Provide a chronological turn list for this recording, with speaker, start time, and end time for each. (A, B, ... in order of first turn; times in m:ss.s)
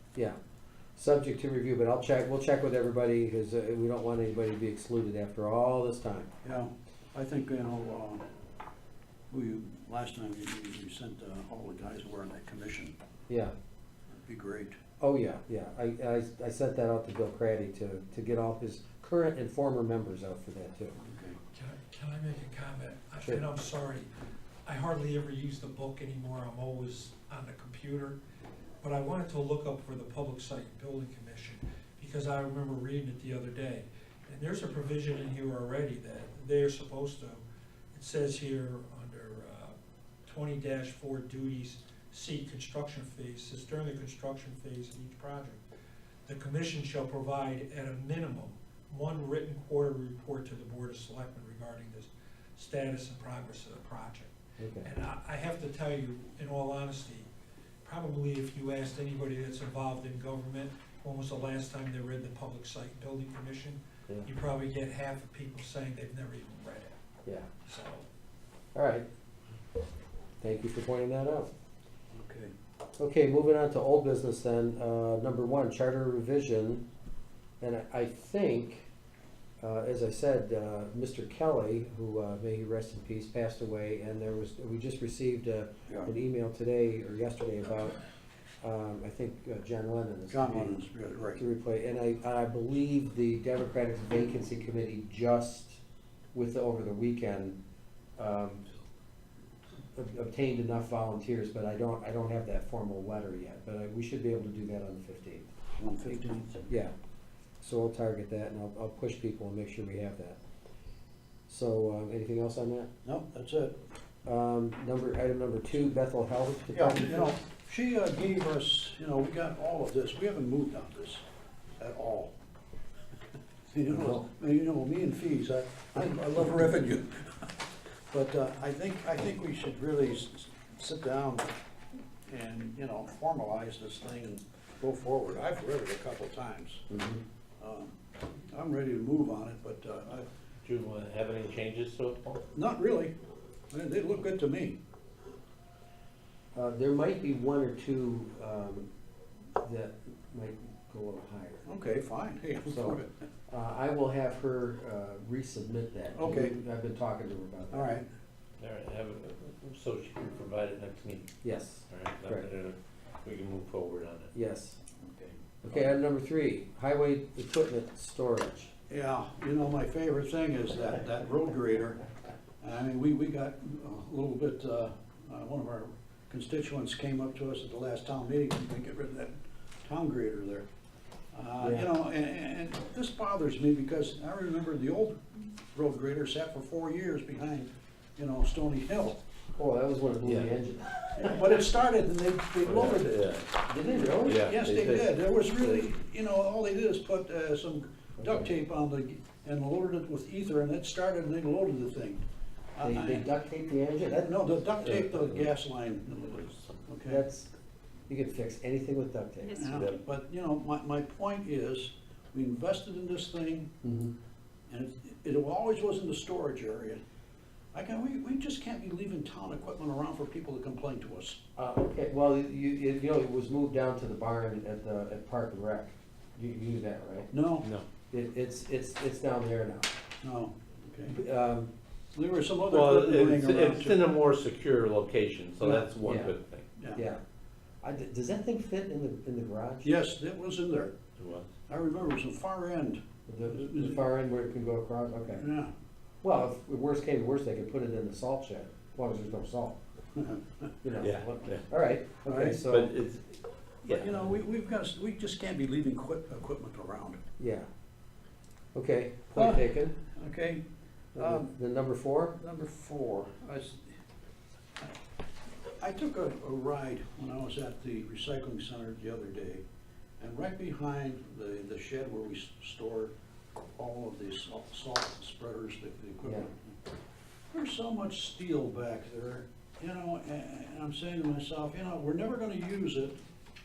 0:01.0-0:06.3 A
0:06.4-0:08.2 B
0:09.3-0:12.9 B
0:13.3-0:13.5 A
0:14.2-0:14.8 B
0:15.0-0:21.0 A
0:21.0-0:21.4 B
0:21.5-0:24.1 C
0:24.7-0:28.2 C
0:28.8-0:37.4 C
0:37.9-0:39.8 C
0:40.3-0:45.6 C
0:46.3-0:57.3 C
0:54.6-0:54.9 A
0:57.8-1:07.0 C
1:07.2-1:07.5 A
1:07.6-1:08.0 C
1:08.8-1:09.1 A
1:10.4-1:11.5 A
1:12.1-1:12.5 B
1:13.0-1:16.8 A
1:17.6-1:18.9 A
1:19.6-1:28.0 A
1:25.9-1:26.1 B
1:28.6-1:30.7 A
1:30.3-1:31.4 B
1:31.4-1:35.8 A
1:36.3-1:37.6 A
1:38.2-1:38.7 A
1:40.0-1:45.5 A
1:45.8-1:46.7 B
1:46.7-1:46.9 A
1:47.6-1:50.4 A
1:51.5-1:52.9 A
1:53.0-1:53.8 B
1:54.2-1:57.4 A
1:56.7-2:01.2 B
2:01.8-2:02.3 B
2:03.7-2:11.5 B
2:03.9-2:04.2 A
2:12.3-2:16.8 B
2:16.9-2:17.2 A
2:17.6-2:18.0 B
2:18.5-2:20.3 B
2:20.6-2:22.4 D
2:22.5-2:23.1 B
2:23.7-2:24.8 B
2:26.6-2:28.9 A
2:29.6-2:31.7 A
2:31.6-2:33.1 B
2:32.7-2:37.9 A
2:36.1-2:36.6 B
2:37.7-2:38.1 B
2:38.6-2:41.3 D
2:41.4-2:42.5 A
2:41.9-2:44.3 D
2:44.3-2:44.8 A
2:45.0-2:45.8 B
2:45.6-2:48.7 A
2:48.9-2:52.0 B
2:52.6-3:00.7 B
3:01.3-3:09.2 B
3:01.6-3:01.9 A
3:09.6-3:11.4 A
3:10.2-3:10.5 D
3:11.2-3:13.2 B
3:12.6-3:13.6 D
3:13.6-3:14.5 A
3:13.9-3:22.2 B
3:14.2-3:15.8 D
3:18.2-3:18.5 A
3:22.8-3:23.3 B
3:22.8-3:24.6 A
3:24.2-3:27.2 B
3:24.8-3:25.4 D
3:26.4-3:26.9 D
3:27.1-3:27.5 A
3:28.1-3:29.8 A
3:29.5-3:33.7 B
3:33.8-3:34.1 A
3:34.7-3:37.0 B
3:37.7-3:41.4 B
3:41.6-3:47.3 A
3:47.3-3:47.7 B
3:48.1-3:49.9 A
3:50.2-3:51.2 B
3:51.1-3:51.7 A
3:52.1-3:54.0 B
3:52.7-3:56.7 D
3:55.6-3:55.9 B
3:56.0-3:56.3 A
3:57.0-3:57.2 A
3:57.8-3:59.9 A
3:59.8-4:01.0 B
4:01.2-4:01.5 D
4:01.7-4:03.0 B
4:03.3-4:05.4 A
4:03.5-4:04.0 B
4:05.4-4:05.7 B
4:06.2-4:09.8 A
4:10.8-4:12.9 A
4:11.0-4:11.7 D
4:12.3-4:12.6 B
4:12.6-4:14.3 D
4:13.8-4:17.2 B
4:17.4-4:17.7 A
4:18.8-4:20.0 A
4:19.4-4:20.6 B
4:21.2-4:22.4 A
4:21.2-4:21.5 B
4:22.4-4:24.0 B
4:25.8-4:29.6 B
4:30.2-4:33.1 B
4:33.8-4:36.7 B
4:37.5-4:43.2 B